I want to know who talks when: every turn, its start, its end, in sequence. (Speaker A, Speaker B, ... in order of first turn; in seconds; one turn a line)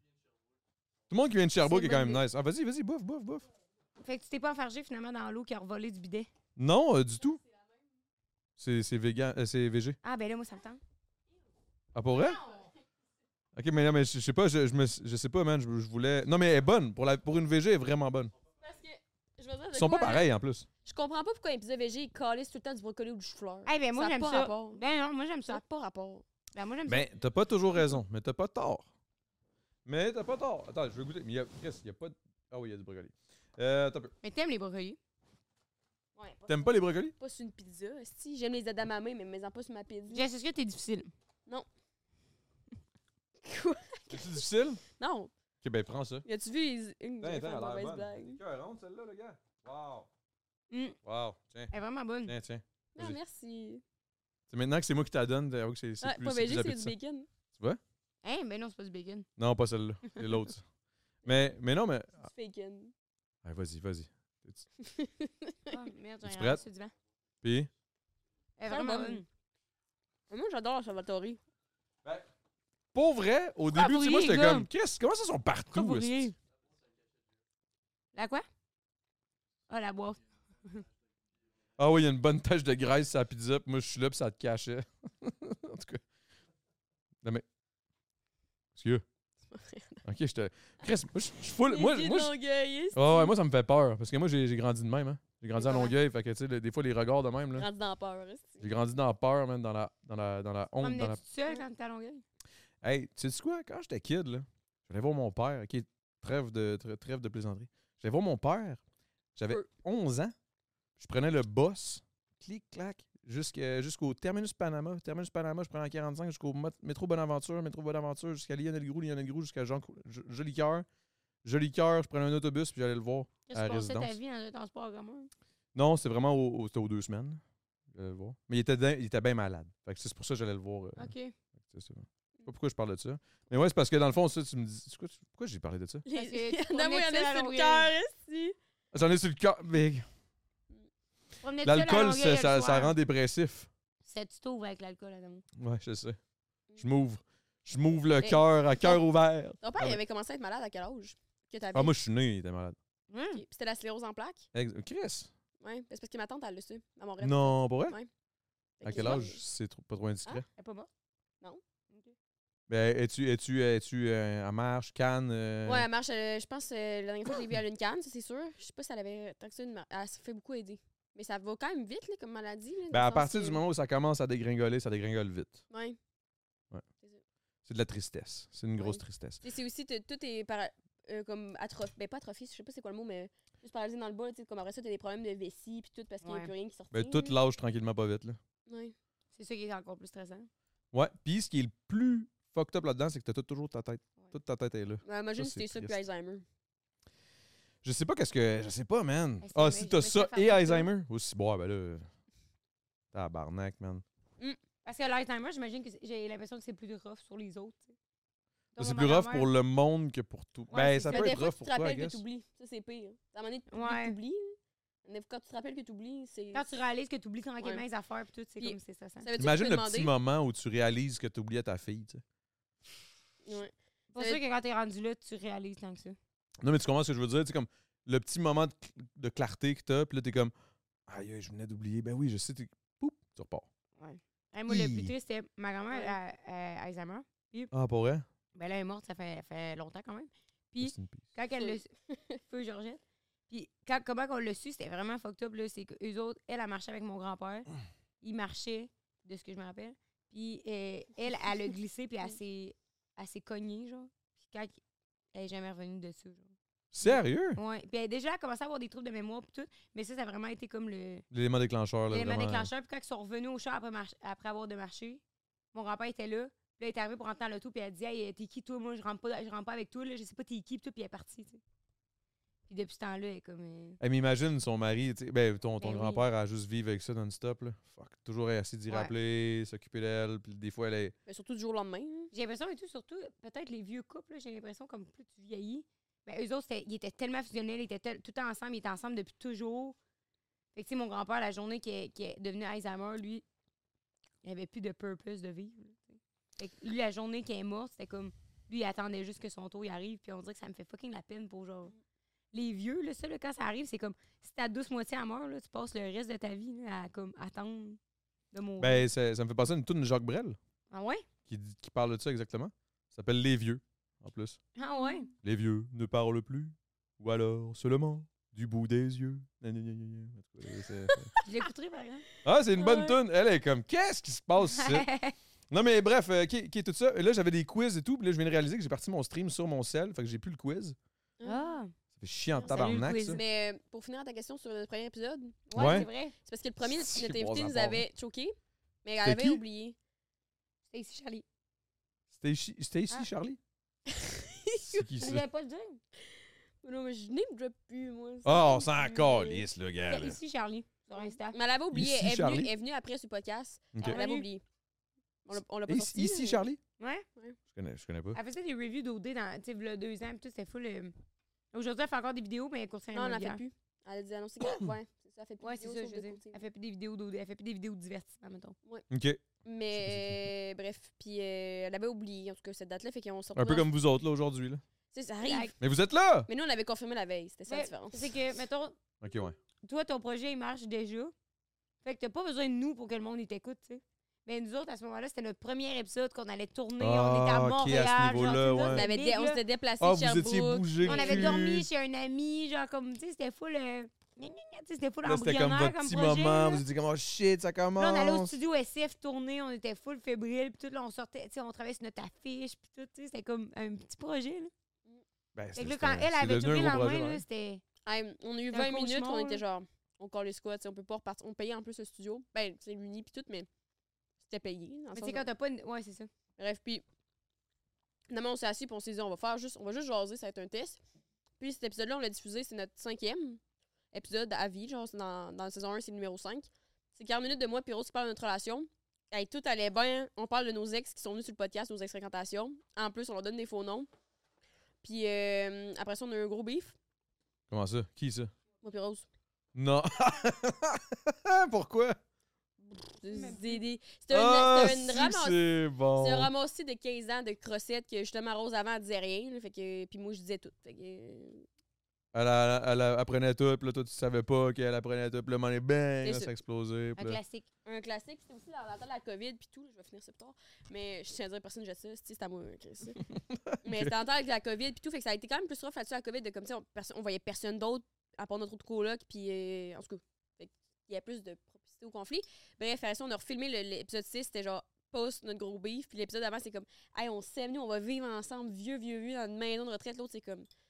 Speaker A: 1.1-3.5
Speaker B: 1.6-2.2
Speaker B: 4.0-6.3
Speaker A: 6.6-7.4
Speaker A: 8.6-10.0
Speaker B: 10.0-10.8
Speaker A: 11.9-12.4
Speaker A: 13.6-18.3
Speaker C: 18.6-20.3
Speaker A: 19.7-20.7
Speaker C: 20.9-24.8
Speaker B: 23.7-25.6
Speaker C: 25.5-26.2
Speaker B: 26.5-27.1
Speaker A: 26.9-28.9
Speaker A: 29.9-34.1
Speaker B: 34.2-35.0
Speaker C: 36.2-40.2
Speaker A: 36.5-37.1
Speaker B: 40.1-41.1
Speaker C: 43.4-45.3
Speaker A: 44.1-44.8
Speaker A: 45.6-46.2
Speaker C: 46.2-48.4
Speaker A: 47.2-50.1
Speaker B: 50.7-51.0
Speaker A: 51.0-51.7
Speaker B: 51.7-52.3
Speaker A: 52.2-53.2
Speaker C: 53.0-53.8
Speaker A: 54.5-56.9
Speaker C: 56.0-57.3
Speaker A: 57.5-57.8
Speaker B: 58.2-59.3
Speaker A: 59.4-60.6
Speaker A: 61.2-62.3
Speaker C: 62.2-62.9
Speaker A: 63.4-64.7
Speaker C: 64.8-65.8
Speaker B: 65.7-66.9
Speaker A: 66.2-66.6
Speaker A: 67.4-67.7
Speaker B: 68.6-69.2
Speaker C: 68.7-69.2
Speaker C: 70.3-71.4
Speaker A: 72.9-76.3
Speaker B: 73.7-74.7
Speaker B: 75.7-76.4
Speaker B: 78.1-78.5
Speaker B: 79.7-80.9
Speaker A: 81.8-86.0
Speaker A: 88.8-89.0
Speaker C: 89.5-90.0
Speaker A: 90.0-92.3
Speaker C: 91.7-93.3
Speaker A: 92.9-97.7
Speaker C: 95.6-95.9
Speaker C: 97.6-98.6
Speaker A: 98.6-101.2
Speaker B: 100.8-102.2
Speaker A: 102.8-108.8
Speaker A: 109.3-110.3
Speaker A: 111.0-120.9
Speaker A: 121.4-124.1
Speaker B: 123.5-125.3
Speaker A: 125.8-127.4
Speaker A: 127.9-136.1
Speaker B: 131.0-131.3
Speaker C: 136.1-138.6
Speaker B: 136.2-137.9
Speaker A: 138.9-140.1
Speaker B: 141.4-142.9
Speaker A: 141.6-143.7
Speaker B: 144.0-145.4
Speaker A: 145.6-146.2
Speaker A: 146.8-150.0
Speaker C: 148.2-149.0
Speaker C: 149.6-151.9
Speaker A: 151.7-152.8
Speaker B: 153.1-153.4
Speaker C: 153.3-154.5
Speaker A: 154.5-155.3
Speaker C: 155.6-158.1
Speaker A: 157.2-158.0
Speaker C: 158.8-159.4
Speaker A: 158.8-160.4
Speaker B: 158.9-159.2
Speaker B: 160.6-160.9
Speaker A: 162.7-165.9
Speaker C: 165.7-173.6
Speaker A: 172.9-175.6
Speaker C: 175.7-176.0
Speaker A: 177.7-179.4
Speaker C: 178.8-187.4
Speaker B: 186.2-186.5
Speaker A: 186.9-188.4
Speaker C: 188.7-188.9
Speaker B: 189.3-190.5
Speaker A: 190.9-196.0
Speaker C: 195.1-196.4
Speaker A: 197.8-202.1
Speaker B: 199.4-200.9
Speaker A: 203.1-204.0
Speaker B: 204.8-208.0
Speaker B: 208.8-209.5
Speaker A: 208.8-212.2
Speaker B: 210.7-211.4
Speaker C: 211.0-216.7
Speaker B: 213.7-214.2
Speaker B: 216.5-219.3
Speaker C: 218.6-220.1
Speaker A: 219.4-222.2
Speaker C: 223.4-224.4
Speaker B: 224.1-226.2
Speaker A: 226.6-230.5
Speaker A: 231.1-233.7
Speaker B: 234.0-237.7
Speaker A: 234.7-235.1
Speaker C: 235.9-236.2
Speaker A: 237.7-238.2
Speaker B: 238.5-247.7
Speaker A: 240.8-241.3
Speaker C: 241.6-242.4
Speaker B: 248.2-254.8
Speaker B: 255.3-256.5
Speaker A: 256.9-257.6
Speaker B: 257.0-261.3
Speaker A: 261.3-262.7
Speaker B: 262.1-265.2
Speaker B: 265.7-271.6
Speaker B: 272.7-274.0
Speaker A: 274.0-281.1
Speaker B: 275.8-276.2
Speaker C: 281.3-282.3
Speaker B: 282.3-290.0
Speaker B: 290.7-293.4
Speaker B: 294.4-301.9
Speaker B: 302.5-308.0
Speaker B: 308.5-309.1
Speaker A: 308.8-310.6
Speaker B: 310.9-311.2
Speaker A: 311.5-314.6
Speaker B: 314.8-315.3
Speaker A: 315.4-321.3
Speaker C: 321.1-321.5
Speaker B: 321.4-322.3
Speaker A: 322.4-325.1
Speaker C: 322.8-323.2
Speaker B: 324.7-325.3
Speaker A: 325.7-331.0
Speaker C: 331.4-331.7
Speaker B: 331.4-331.9
Speaker A: 332.2-333.4
Speaker B: 332.6-333.4
Speaker C: 333.3-340.0
Speaker B: 335.7-336.4
Speaker A: 335.8-336.1
Speaker A: 336.8-338.0
Speaker A: 339.2-339.6
Speaker B: 340.9-341.4
Speaker A: 342.3-343.6
Speaker C: 344.1-345.1
Speaker A: 344.8-345.4
Speaker B: 345.2-346.0
Speaker C: 346.8-349.6
Speaker A: 348.4-350.4
Speaker B: 350.1-351.6
Speaker C: 351.1-354.6
Speaker A: 351.9-352.7
Speaker B: 354.0-354.5
Speaker C: 355.4-356.6
Speaker A: 355.9-356.8
Speaker B: 357.0-357.3
Speaker A: 357.7-358.4
Speaker B: 358.3-361.1
Speaker B: 361.7-363.6
Speaker C: 363.1-366.6
Speaker B: 365.6-368.8
Speaker A: 369.1-370.4
Speaker C: 369.6-373.9
Speaker A: 373.6-374.8
Speaker C: 375.1-375.8
Speaker B: 375.4-375.7
Speaker A: 375.8-376.5
Speaker C: 376.5-378.3
Speaker B: 377.7-379.0
Speaker A: 379.2-379.6
Speaker B: 379.8-381.3
Speaker B: 382.0-389.6
Speaker A: 387.0-389.1
Speaker C: 388.9-391.6
Speaker A: 390.0-391.9
Speaker B: 391.0-396.8
Speaker A: 395.2-398.6
Speaker B: 398.0-404.7
Speaker A: 405.6-407.4
Speaker B: 405.8-407.8
Speaker C: 408.1-413.7
Speaker B: 408.7-409.6
Speaker C: 414.4-415.4
Speaker B: 415.1-416.3
Speaker C: 416.6-417.0
Speaker C: 418.3-421.0
Speaker C: 421.6-423.6
Speaker C: 424.1-434.1
Speaker C: 435.0-437.0
Speaker A: 437.7-438.5
Speaker C: 438.8-439.2
Speaker A: 439.8-442.2
Speaker C: 442.9-451.7
Speaker B: 443.3-443.8
Speaker A: 444.3-446.5
Speaker A: 452.3-457.4
Speaker C: 456.2-456.5
Speaker B: 457.2-457.7
Speaker C: 457.9-463.2
Speaker A: 463.3-464.1
Speaker C: 463.8-480.7